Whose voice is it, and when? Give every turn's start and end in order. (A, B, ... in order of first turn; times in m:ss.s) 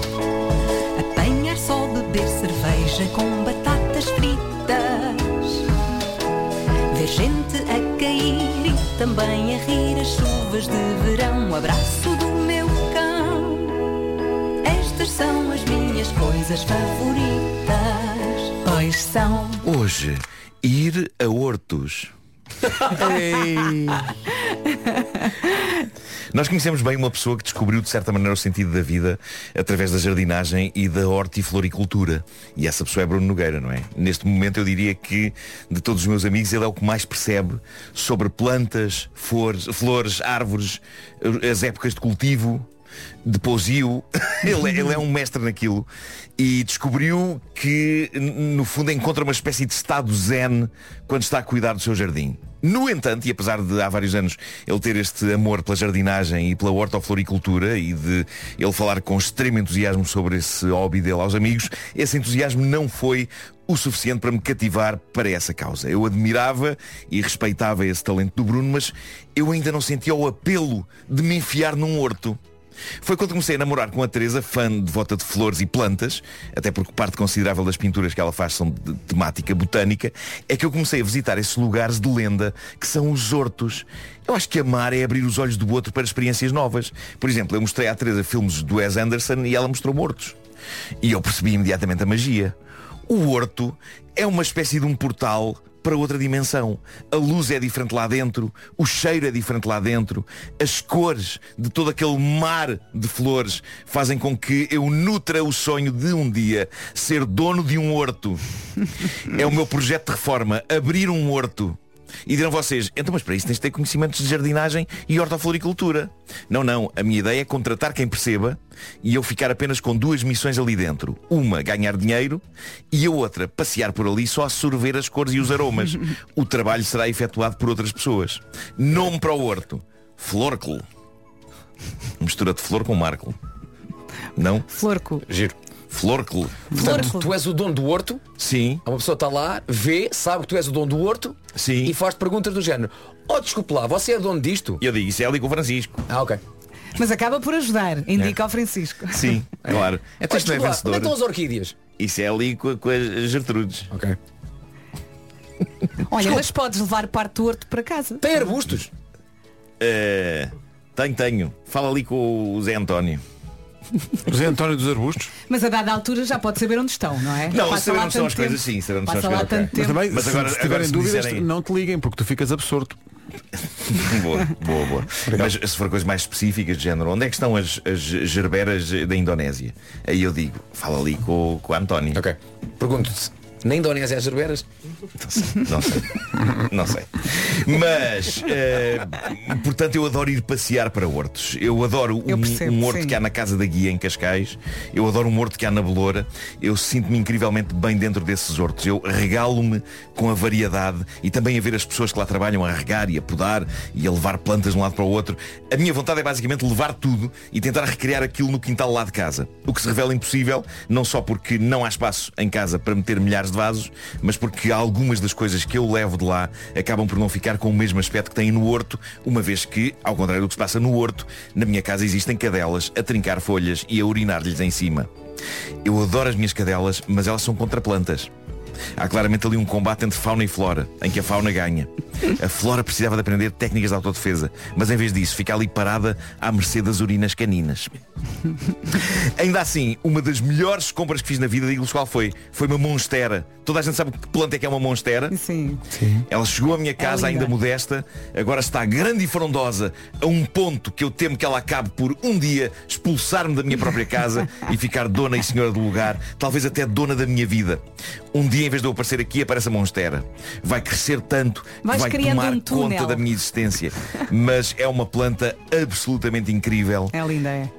0:01.0-0:05.7 A
0:06.9-0:13.8 A
0:14.6-0:19.6 A
0:19.6-0:22.1 B
0:23.0-0:24.1 C
0:26.3-0:42.7 B
0:43.2-1:12.4 B
1:13.0-1:30.4 B
1:31.0-1:32.6 B
1:33.1-1:48.4 B
1:49.3-2:10.9 B
2:12.2-2:13.4 B
2:14.4-2:14.7 B
2:14.7-2:15.3 D
2:15.3-2:15.5 E
2:15.9-2:16.8 B
2:16.8-2:18.2 E
2:16.8-2:17.2 D
2:18.4-2:18.8 B
2:18.8-2:24.8 E
2:21.6-2:22.0 B
2:24.8-2:26.0 B
2:26.1-2:26.4 E
2:27.0-2:29.3 D
2:29.1-2:31.2 B
2:29.7-2:31.8 E
2:32.0-2:33.9 B
2:33.9-2:34.2 E
2:36.1-2:38.3 D
2:38.2-2:38.9 E
2:39.8-2:43.2 B
2:44.3-2:45.3 C
2:45.5-2:50.0 D
2:47.5-2:51.5 B
2:49.4-2:49.7 E
2:49.7-2:53.0 C
2:53.9-3:02.2 B
3:02.1-3:04.6 E
3:05.2-3:45.1 B
3:12.3-3:13.2 D
3:45.8-3:48.3 B
3:49.0-3:57.9 B
3:58.9-4:05.4 B
4:05.3-4:05.8 D
4:05.9-4:06.2 C
4:06.3-4:17.8 B
4:07.0-4:07.5 D
4:18.3-4:27.2 B
4:21.8-4:23.3 D
4:27.1-4:27.7 D